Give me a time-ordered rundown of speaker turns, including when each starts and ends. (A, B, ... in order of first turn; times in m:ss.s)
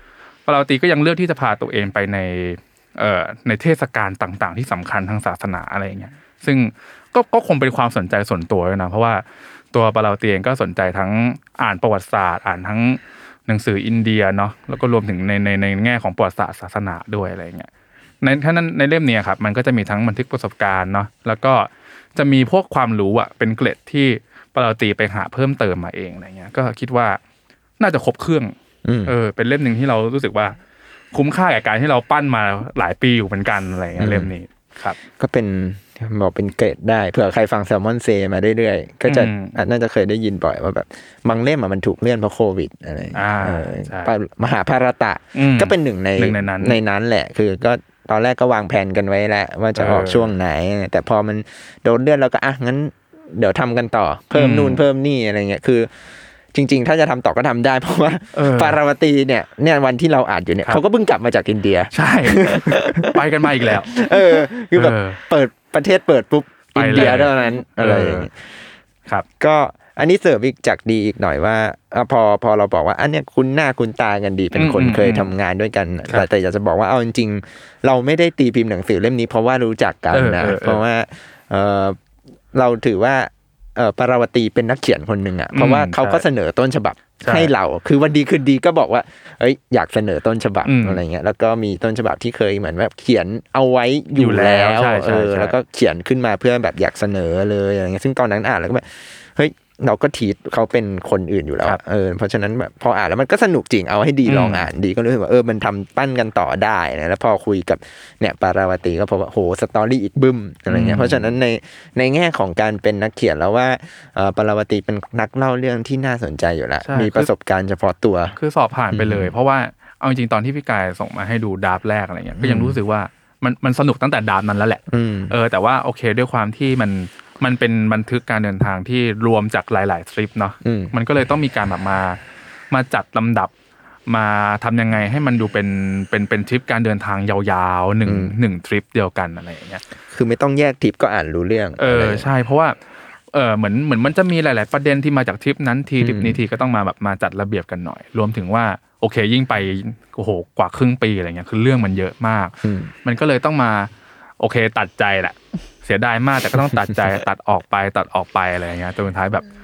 0:00.4-0:17.7 A
0:18.2-0:27.2 A
0:27.8-0:28.5 A
0:28.8-0:29.1 B
0:29.0-0:30.6 A
0:31.1-0:35.0 A
0:34.0-0:34.3 B
0:35.2-0:55.9 B
0:39.1-0:39.5 A
0:43.1-0:44.1 A
0:45.3-0:46.8 A
0:49.8-0:50.3 A
0:54.3-0:54.8 A
0:56.5-1:08.3 B
0:58.3-0:58.8 A
1:01.9-1:03.9 A
1:04.7-1:05.2 A
1:06.7-1:08.3 A
1:09.4-1:22.0 B
1:14.5-1:15.3 A
1:20.1-1:20.8 A
1:22.5-1:58.4 B
1:25.5-1:26.2 A
1:27.2-1:27.5 A
1:30.6-1:31.0 A
1:34.2-1:35.5 A
1:44.2-1:44.7 A
1:50.7-1:51.3 A
1:56.8-1:57.3 A
1:58.4-2:12.2 A
1:58.9-1:59.3 B
2:02.4-2:02.8 B
2:04.9-2:05.3 B
2:10.6-2:10.9 B
2:12.7-2:13.5 A
2:14.1-2:19.8 A
2:18.0-2:18.3 B
2:20.1-2:22.3 B
2:21.8-2:22.8 A
2:23.3-2:39.5 A
2:26.0-2:26.4 B
2:32.6-2:32.9 B